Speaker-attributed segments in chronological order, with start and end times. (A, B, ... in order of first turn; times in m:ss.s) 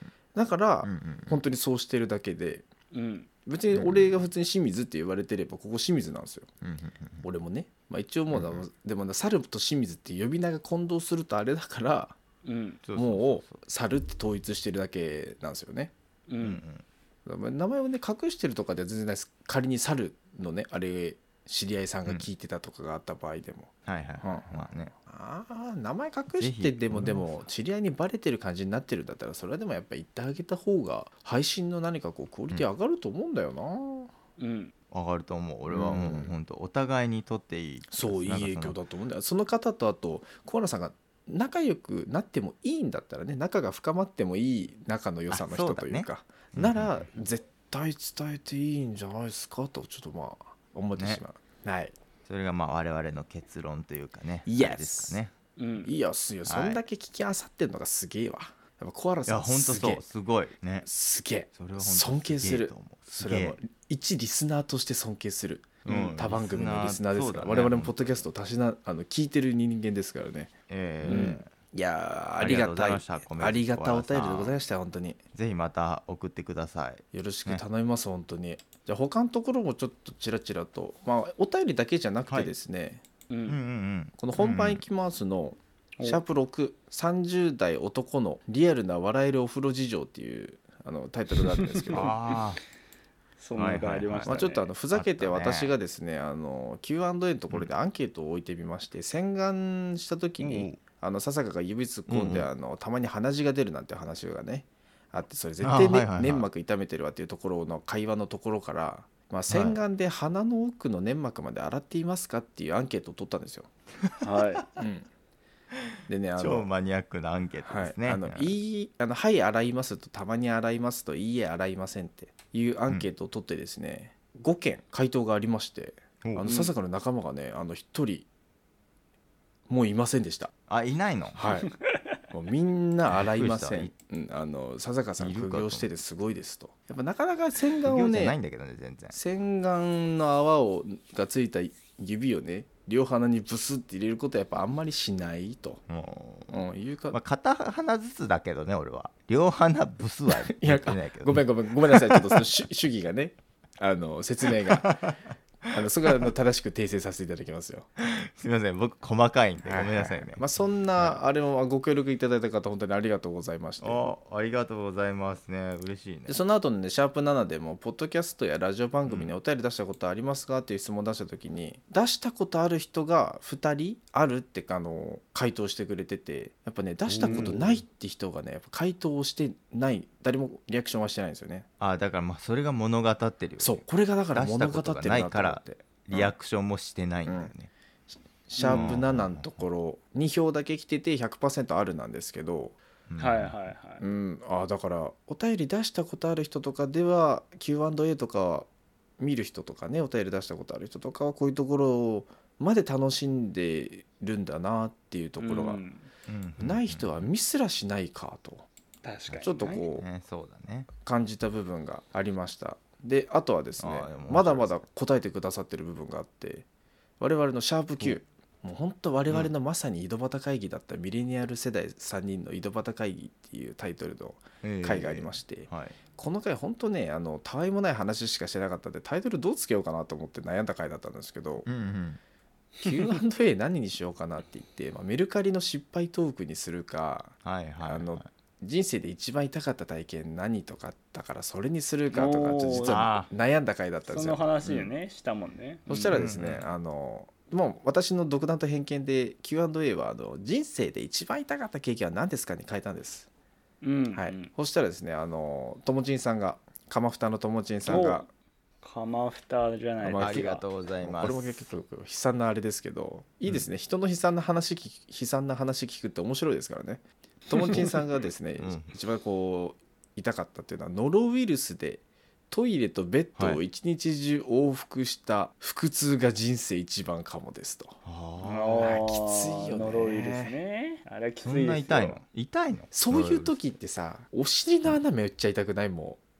0:00.3-0:02.6 A
0:00.8-0:01.4 B
0:02.9-0:03.3 C
0:03.4-0:06.5 A
0:03.7-0:04.1 B
0:06.6-0:07.2 B
0:07.2-0:12.2 A
0:08.3-0:08.6 B
0:12.4-0:12.8 C
0:12.8-0:13.6 B
0:13.0-0:15.9 A
0:16.3-0:16.6 C
0:16.4-0:16.8 B
0:17.2-0:34.1 A
0:23.8-0:24.9 B
0:26.4-0:27.4 B
0:34.4-0:34.7 C
0:34.9-0:38.8 B
0:35.7-0:36.3 A
0:37.9-0:51.9 A
0:45.3-0:47.1 B
0:51.0-0:51.2 B
0:52.2-0:55.3 B
0:54.4-0:55.2 A
0:55.6-0:55.9 C
0:55.8-1:00.0 A
0:56.4-0:56.8 B
0:59.3-1:00.9 B
1:00.8-1:10.5 A
1:01.5-1:03.6 B
1:05.8-1:08.2 B
1:10.7-1:11.5 B
1:11.0-1:15.2 A
1:11.0-1:11.3 C
1:12.4-1:14.5 B
1:15.3-1:17.6 B
1:17.1-1:23.0 A
1:23.3-1:23.6 C
1:23.5-1:24.8 B
1:24.2-1:32.1 A
1:31.6-1:32.3 C
1:31.9-1:32.6 B
1:33.4-1:34.7 C
1:33.6-1:35.7 B
1:34.2-1:53.7 A
1:40.4-1:40.8 B
1:42.1-1:42.5 B
1:45.6-1:46.4 B
1:49.5-1:49.8 B
1:54.0-1:54.6 B
1:54.2-1:54.6 C
1:54.8-1:55.1 A
1:56.1-1:56.7 A
1:56.4-1:58.5 B
1:57.6-2:08.3 A
2:06.2-2:06.6 B
2:09.7-2:10.5 A
2:10.7-2:11.4 B
2:11.4-2:11.7 A
2:12.3-2:18.4 A
2:13.1-2:13.9 B
2:15.2-2:15.9 B
2:17.8-2:19.2 B
2:19.1-2:25.8 A
2:25.9-2:32.4 B
2:26.5-2:27.2 A
2:30.3-2:35.0 A
2:34.6-2:35.7 B
2:35.7-2:37.9 A
2:38.0-2:40.4 B
2:39.6-2:44.1 A
2:43.8-2:46.4 B
2:46.3-3:01.7 A
2:49.0-2:49.3 B
2:57.1-2:57.8 B
2:57.1-2:57.6 C
3:01.8-3:03.8 B
3:03.6-3:06.3 A
3:04.3-3:07.7 B
3:07.2-3:07.5 A
3:08.5-3:12.8 A
3:08.6-3:09.6 B
3:13.1-3:13.5 B
3:13.2-3:14.0 C
3:14.0-3:18.7 A
3:19.2-3:25.8 A
3:25.4-3:26.1 C
3:26.3-3:27.2 B
3:26.6-3:28.6 A
3:29.0-3:29.8 C
3:29.3-3:30.9 B
3:29.4-3:30.0 A
3:31.0-3:36.6 A
3:33.8-3:34.8 B
3:37.2-3:51.6 A
3:44.6-3:46.0 B
3:51.6-3:52.2 B
3:52.8-4:04.5 A
3:57.4-3:58.3 B
4:02.1-4:03.0 C
4:02.8-4:03.3 B
4:04.1-4:06.2 C
4:04.6-4:04.9 B
4:05.9-4:13.3 A
4:06.1-4:06.6 B
4:13.8-4:14.5 C
4:14.1-4:18.3 A
4:17.8-4:18.2 C
4:18.8-4:20.6 C
4:20.0-4:20.5 A
4:20.2-4:21.7 B
4:21.0-4:38.0 A
4:27.5-4:27.9 C
4:28.6-4:28.9 B
4:38.0-4:39.0 B
4:38.4-4:42.2 C
4:38.8-4:40.6 A
4:41.4-4:43.5 B
4:42.9-4:46.2 A